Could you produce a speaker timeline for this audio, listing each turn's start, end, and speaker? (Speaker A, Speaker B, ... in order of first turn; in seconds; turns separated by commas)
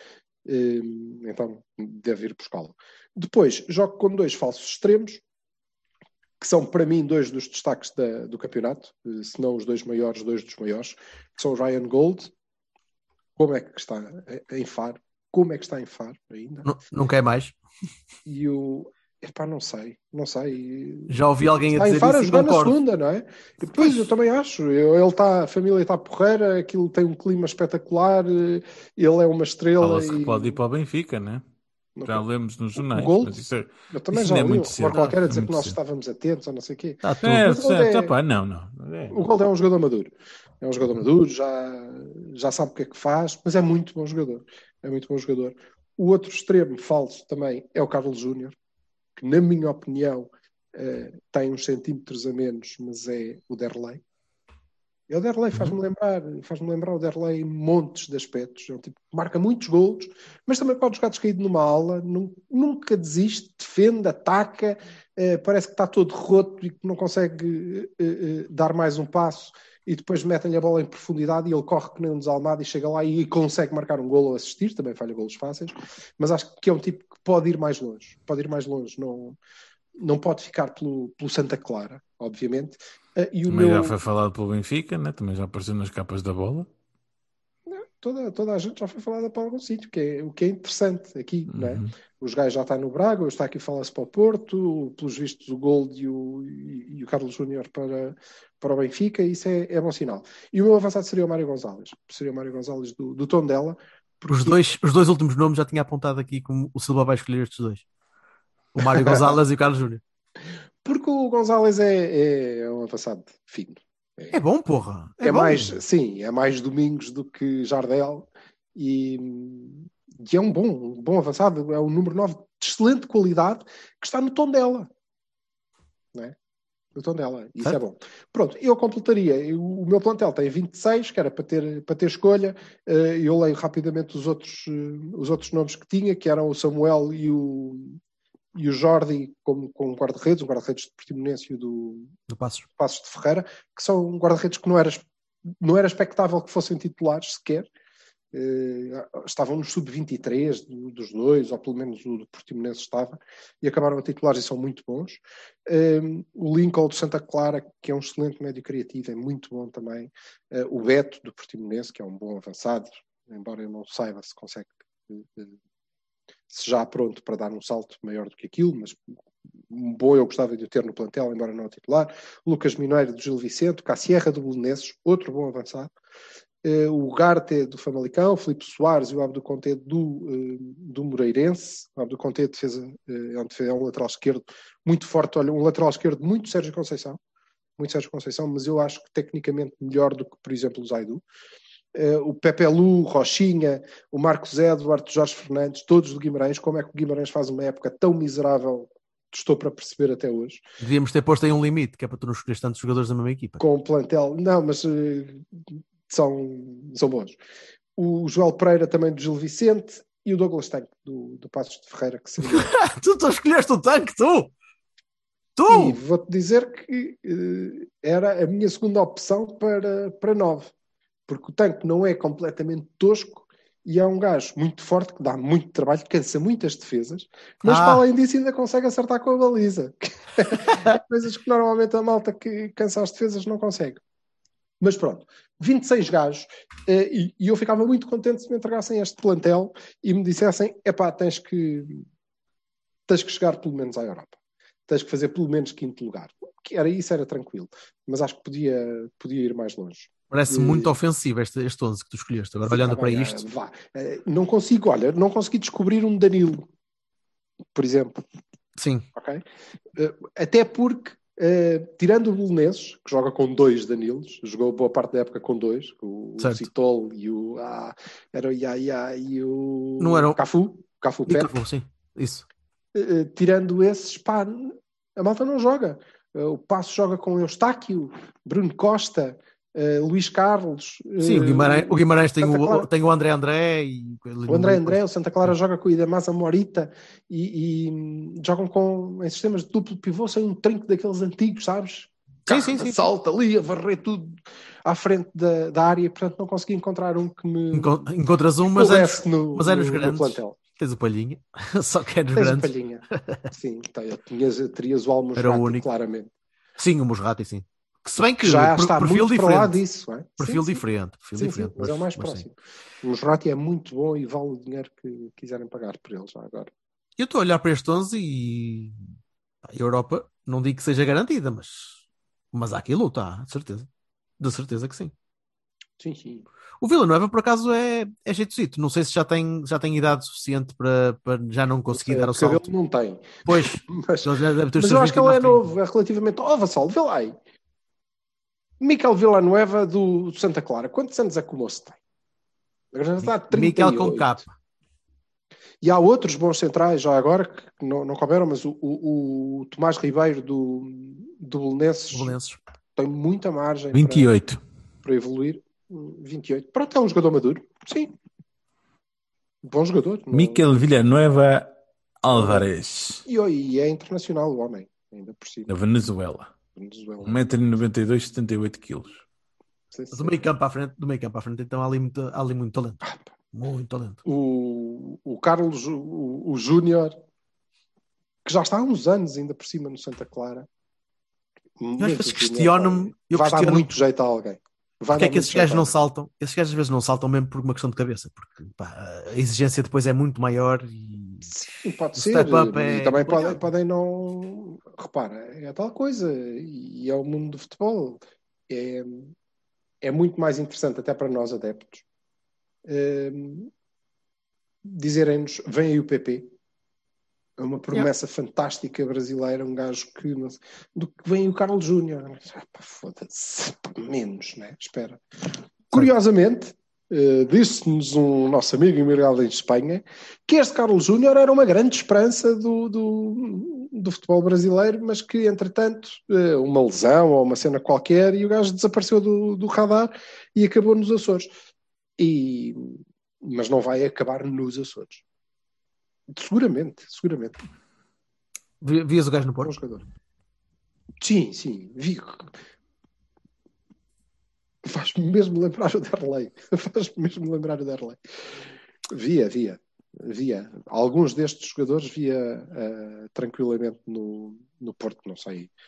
Speaker A: 0.4-5.2, Speaker A: 6.4-12.3, Speaker A: 13.4-16.7, Speaker B: 16.6-17.5, Speaker A: 18.2-30.6, Speaker B: 21.1-22.8, Speaker C: 29.8-31.4, Speaker A: 31.9-32.2, Speaker C: 32.0-35.8, Speaker A: 32.8-38.1, Speaker B: 34.9-35.2, Speaker B: 37.0-37.3, Speaker C: 37.2-39.2, Speaker A: 39.1-48.5, Speaker A: 49.1-54.0, Speaker A: 55.1-79.4, Speaker A: 80.0-84.0, Speaker C: 83.5-86.7, Speaker A: 87.7-103.8, Speaker C: 91.5-91.9, Speaker B: 104.2-107.8, Speaker B: 108.7-110.0, Speaker A: 108.8-109.3, Speaker A: 110.8-114.3, Speaker B: 114.3-115.8, Speaker A: 115.2-124.9, Speaker A: 126.9-138.0, Speaker A: 138.5-142.1, Speaker B: 142.3-142.7, Speaker A: 142.8-145.1, Speaker A: 145.6-147.7, Speaker A: 148.3-165.6, Speaker A: 166.5-169.1, Speaker A: 169.7-175.9, Speaker A: 176.6-187.2, Speaker A: 187.8-191.2, Speaker A: 191.9-200.6, Speaker B: 200.8-203.6, Speaker A: 203.6-207.4, Speaker A: 207.9-212.7, Speaker B: 212.5-214.5, Speaker B: 215.6-216.0, Speaker A: 215.7-220.7, Speaker A: 221.3-234.0, Speaker B: 227.6-228.0, Speaker A: 234.8-242.1, Speaker A: 243.1-244.4, Speaker A: 244.9-250.9, Speaker B: 250.3-253.4, Speaker A: 252.7-256.7, Speaker A: 257.7-258.2, Speaker B: 258.8-259.1, Speaker A: 259.1-259.4, Speaker A: 259.9-271.6, Speaker B: 266.4-266.7, Speaker B: 270.0-270.4, Speaker B: 271.2-272.4, Speaker A: 272.9-282.9, Speaker B: 281.2-285.0, Speaker A: 284.5-298.1, Speaker B: 292.5-293.0, Speaker B: 297.7-303.4, Speaker A: 298.7-300.6, Speaker A: 302.3-306.3, Speaker B: 305.4-305.9, Speaker B: 306.8-309.8, Speaker A: 308.4-310.8, Speaker B: 310.4-312.4, Speaker A: 311.3-316.7, Speaker B: 317.2-319.0, Speaker B: 319.7-322.0, Speaker B: 322.5-323.9, Speaker B: 324.4-325.1, Speaker A: 326.0-326.5, Speaker B: 326.8-332.7, Speaker A: 331.9-337.4, Speaker B: 333.4-335.6, Speaker A: 338.8-342.0, Speaker A: 342.9-344.4, Speaker B: 343.2-344.5, Speaker A: 345.8-352.3, Speaker B: 352.1-352.6, Speaker A: 352.9-354.3, Speaker C: 353.9-354.6, Speaker A: 355.0-358.1, Speaker A: 359.6-360.6, Speaker C: 360.3-363.2, Speaker A: 362.3-362.6, Speaker A: 363.2-365.8, Speaker C: 365.7-366.5, Speaker A: 366.7-367.4, Speaker C: 367.2-369.2, Speaker A: 369.9-370.5, Speaker B: 370.1-374.2, Speaker A: 374.2-377.1, Speaker A: 378.4-380.7, Speaker A: 381.8-385.9, Speaker B: 382.0-383.9, Speaker B: 385.1-391.5, Speaker A: 391.5-399.3, Speaker B: 392.1-393.6, Speaker A: 400.0-402.0, Speaker A: 402.8-403.7, Speaker A: 404.8-406.5, Speaker A: 407.6-431.5, Speaker A: 432.2-435.2, Speaker A: 436.3-437.6, Speaker B: 438.8-439.7, Speaker A: 439.6-440.0, Speaker A: 441.2-442.6, Speaker A: 444.8-448.2, Speaker A: 449.1-455.7